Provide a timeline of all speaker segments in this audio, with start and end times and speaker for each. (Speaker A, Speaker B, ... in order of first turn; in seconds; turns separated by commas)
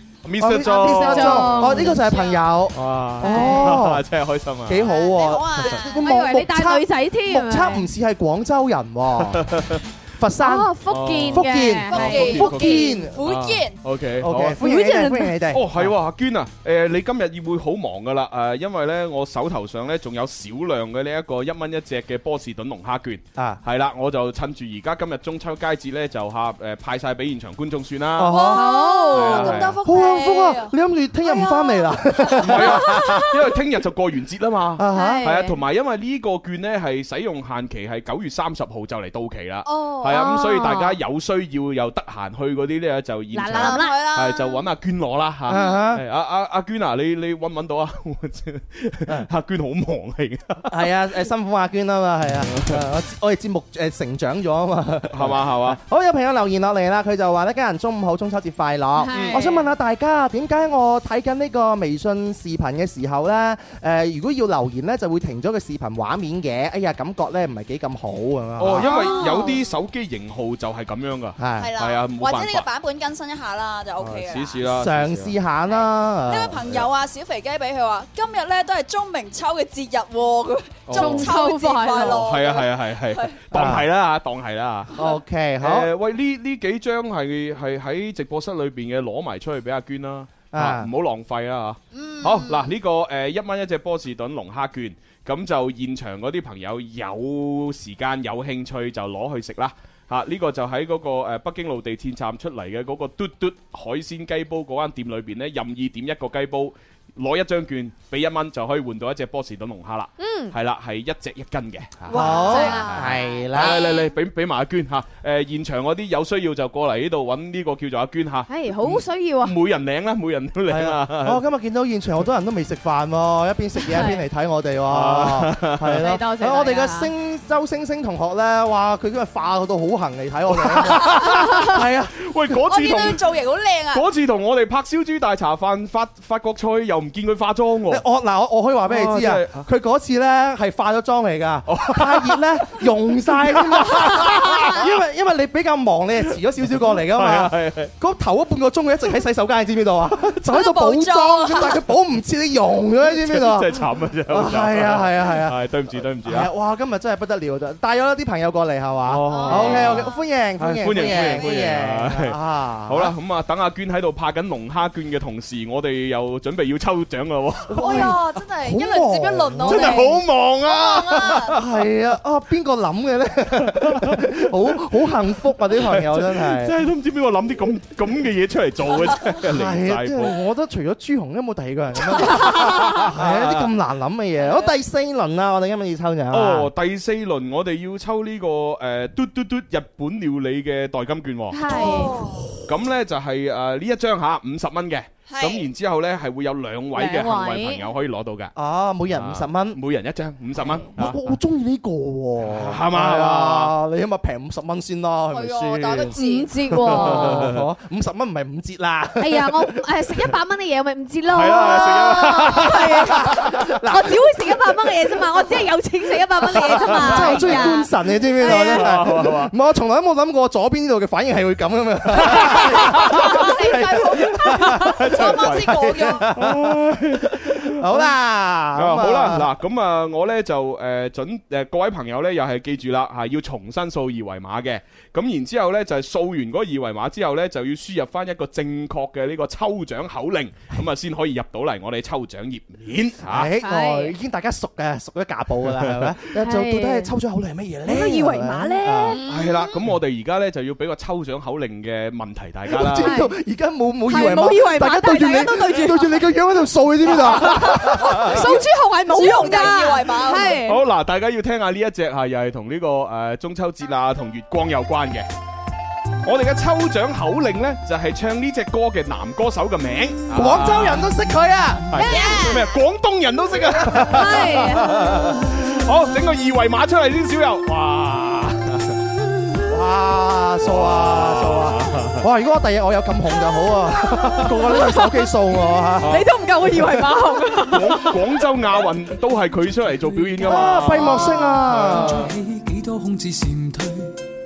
Speaker A: 0.2-1.9, Speaker B: 0.4-4.0, Speaker C: 0.7-2.0, Speaker D: 1.9-2.5, Speaker A: 2.7-4.8, Speaker C: 3.2-3.7, Speaker B: 4.7-9.4, Speaker D: 4.8-6.0, Speaker C: 6.0-7.9, Speaker A: 9.2-9.8, Speaker B: 10.2-10.8, Speaker C: 10.4-12.9, Speaker A: 10.9-14.8, Speaker B: 11.3-13.2, Speaker D: 11.9-13.8, Speaker B: 14.2-15.9, Speaker C: 14.6-15.4, Speaker A: 15.5-28.5, Speaker B: 28.2-29.0, Speaker D: 28.3-30.7, Speaker C: 28.5-29.5, Speaker A: 29.1-29.8, Speaker B: 29.8-33.3, Speaker C: 31.4-31.9, Speaker A: 32.4-51.0, Speaker C: 32.9-33.3, Speaker B: 34.8-35.3, Speaker C: 34.9-35.6, Speaker D: 39.7-40.5, Speaker C: 40.1-41.0, Speaker C: 43.3-44.0, Speaker D: 43.5-44.7, Speaker B: 45.5-46.0, Speaker B: 50.7-69.2, Speaker A: 52.4-52.9, Speaker A: 55.1-55.8, Speaker C: 59.0-59.7, Speaker A: 59.1-59.4, Speaker A: 68.6-72.7, Speaker C: 68.8-69.6, Speaker D: 69.2-69.5, Speaker B: 71.4-71.7, Speaker D: 71.6-74.7, Speaker A: 74.0-75.4, Speaker B: 74.8-76.6, Speaker D: 75.7-83.4, Speaker A: 80.9-81.3, Speaker C: 80.9-82.2, Speaker A: 82.1-84.9, Speaker B: 83.5-83.8, Speaker B: 85.0-85.9, Speaker A: 85.6-121.5, Speaker B: 90.5-90.9, Speaker D: 91.9-92.7, Speaker C: 110.2-110.5, Speaker B: 112.1-113.8, Speaker D: 112.1-113.9, Speaker C: 112.2-113.5, Speaker C: 118.5-119.6, Speaker B: 120.7-132.6, Speaker C: 123.8-124.3, Speaker A: 124.9-126.1, Speaker C: 126.0-127.1, Speaker A: 130.5-133.2, Speaker D: 132.7-134.1, Speaker A: 133.9-138.0, Speaker B: 137.9-155.6, Speaker A: 138.8-139.7, Speaker A: 141.7-144.9, Speaker A: 146.6-147.9, Speaker D: 150.5-151.8, Speaker A: 153.0-156.5, Speaker B: 156.2-163.1, Speaker A: 159.1-168.2, Speaker D: 159.3-160.2, Speaker D: 160.9-161.7, Speaker B: 167.7-170.1, Speaker D: 167.8-171.5, Speaker A: 169.7-171.6, Speaker B: 171.3-176.8, Speaker A: 173.6-180.4, Speaker B: 179.5-186.7, Speaker A: 182.1-183.7, Speaker A: 186.3-191.7, Speaker C: 191.5-192.3, Speaker D: 191.7-192.5, Speaker A: 192.7-198.5, Speaker D: 195.3-195.7, Speaker C: 196.9-197.9, Speaker B: 198.6-199.8, Speaker A: 199.1-201.2, Speaker B: 200.9-206.2, Speaker A: 202.4-203.8, Speaker D: 205.3-206.5, Speaker C: 206.2-207.5, Speaker B: 206.7-209.8, Speaker A: 206.9-207.6, Speaker C: 209.2-218.9, Speaker A: 211.3-213.5, Speaker B: 211.9-214.1, Speaker A: 216.5-217.8, Speaker B: 216.7-229.5, Speaker A: 218.4-219.5, Speaker A: 222.2-223.3, Speaker D: 223.1-226.3, Speaker A: 224.7-228.2, Speaker A: 228.7-243.5, Speaker B: 243.2-249.2, Speaker C: 243.6-244.2, Speaker A: 245.6-246.1, Speaker C: 246.4-247.2, Speaker C: 247.9-249.2, Speaker D: 249.1-249.8, Speaker A: 249.3-253.2, Speaker B: 252.7-258.6, Speaker C: 253.0-253.3, Speaker C: 254.1-256.2, Speaker A: 257.2-257.9, Speaker C: 257.4-260.8, Speaker D: 259.1-260.6, Speaker A: 260.6-265.3, Speaker A: 266.2-271.2, Speaker B: 270.3-271.9, Speaker A: 271.9-279.0, Speaker C: 271.9-272.5, Speaker D: 272.1-272.8, Speaker C: 273.9-275.4, Speaker B: 273.9-274.2, Speaker B: 279.7-286.2, Speaker A: 280.6-282.3, Speaker C: 284.1-285.2, Speaker C: 285.8-288.2, Speaker A: 286.0-286.3, Speaker A: 287.6-292.3, Speaker E: 289.9-294.2, Speaker B: 290.4-292.3, Speaker C: 290.7-291.5